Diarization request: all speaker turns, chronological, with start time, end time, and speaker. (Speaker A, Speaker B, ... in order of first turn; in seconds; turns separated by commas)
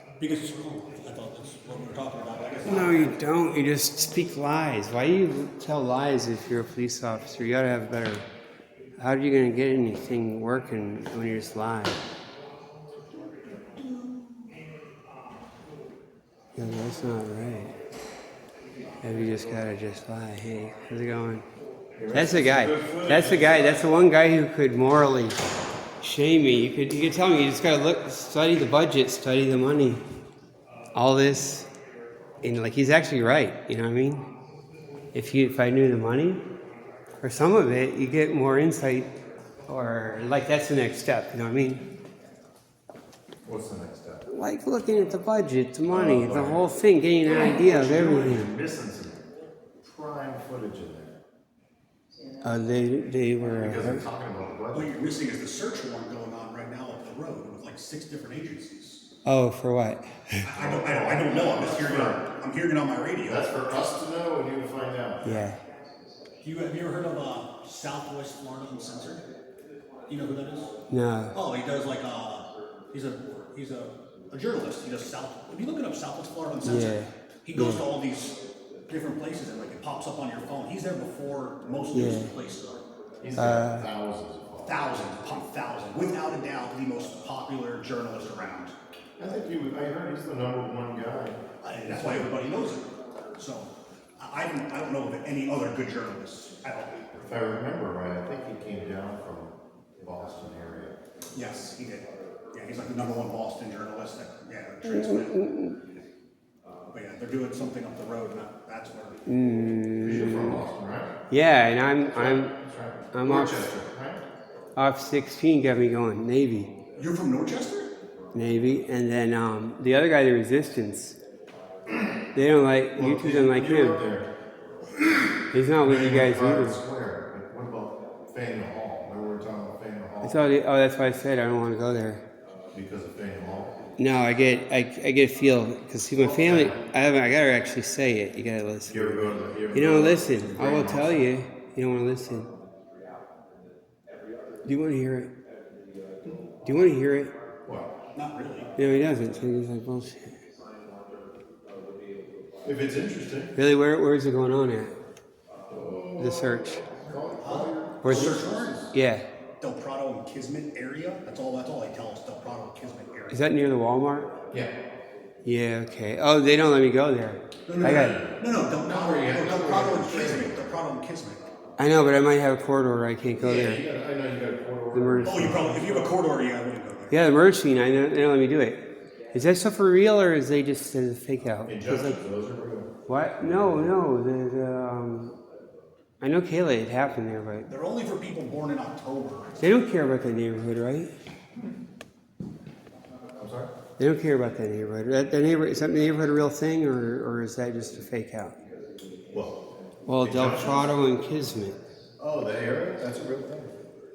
Speaker A: 0.2-3.2, Speaker B: 2.6-8.2, Speaker B: 9.0-12.0, Speaker A: 13.8-14.3, Speaker B: 16.5-17.7, Speaker B: 19.0-21.4, Speaker C: 22.0-23.9, Speaker B: 22.1-25.4, Speaker B: 26.0-30.0, Speaker B: 30.9-31.7, Speaker B: 32.4-34.3, Speaker B: 35.1-36.4, Speaker B: 37.2-39.1, Speaker B: 39.7-41.8, Speaker C: 43.4-44.3, Speaker B: 44.3-48.5, Speaker C: 45.9-46.6, Speaker C: 47.2-49.2, Speaker C: 49.8-51.2, Speaker B: 52.4-54.0, Speaker C: 53.5-54.9, Speaker A: 54.7-59.0, Speaker B: 59.2-60.4, Speaker A: 60.4-63.9, Speaker C: 60.5-62.2, Speaker C: 63.2-65.2, Speaker A: 65.2-65.5, Speaker B: 65.2-65.6, Speaker A: 66.4-69.2, Speaker A: 70.1-70.7, Speaker B: 70.9-71.3, Speaker A: 71.3-82.8, Speaker B: 76.6-77.9, Speaker B: 81.9-82.3, Speaker C: 83.2-84.9, Speaker B: 83.3-83.9, Speaker A: 84.6-88.7, Speaker C: 89.2-92.3, Speaker A: 91.6-97.2, Speaker C: 97.2-101.0, Speaker A: 101.3-105.5, Speaker B: 104.8-105.8, Speaker A: 106.9-109.2, Speaker B: 109.2-110.6, Speaker C: 110.0-111.1, Speaker B: 111.3-112.5, Speaker C: 112.1-114.2, Speaker B: 113.1-113.8, Speaker B: 114.8-116.7, Speaker A: 117.0-117.9, Speaker B: 118.3-121.2, Speaker B: 122.3-124.0, Speaker C: 122.9-124.3, Speaker B: 125.5-126.8, Speaker C: 125.8-130.5, Speaker B: 130.2-132.2, Speaker C: 132.7-133.8, Speaker B: 134.0-142.5, Speaker C: 136.1-136.8, Speaker C: 138.9-141.3, Speaker B: 144.6-145.3, Speaker B: 146.6-147.3, Speaker C: 147.7-147.9, Speaker A: 148.1-148.7, Speaker B: 148.8-150.4, Speaker C: 152.6-153.5, Speaker B: 153.5-154.9, Speaker C: 155.7-158.9, Speaker B: 156.2-156.8, Speaker A: 157.1-158.9, Speaker B: 158.0-159.2, Speaker A: 159.6-163.5, Speaker B: 163.3-164.3, Speaker B: 165.4-168.3, Speaker A: 167.7-171.5, Speaker C: 167.8-170.7, Speaker B: 171.8-173.8, Speaker C: 173.4-176.1, Speaker B: 174.9-176.0, Speaker A: 175.2-177.2, Speaker B: 177.1-182.2, Speaker C: 181.6-184.0, Speaker B: 183.1-185.4, Speaker B: 186.2-187.7, Speaker A: 187.7-189.6, Speaker B: 189.6-191.1, Speaker C: 193.4-193.7, Speaker B: 194.0-198.6, Speaker C: 199.3-199.6, Speaker B: 200.1-201.8, Speaker C: 200.2-200.9, Speaker C: 202.2-203.7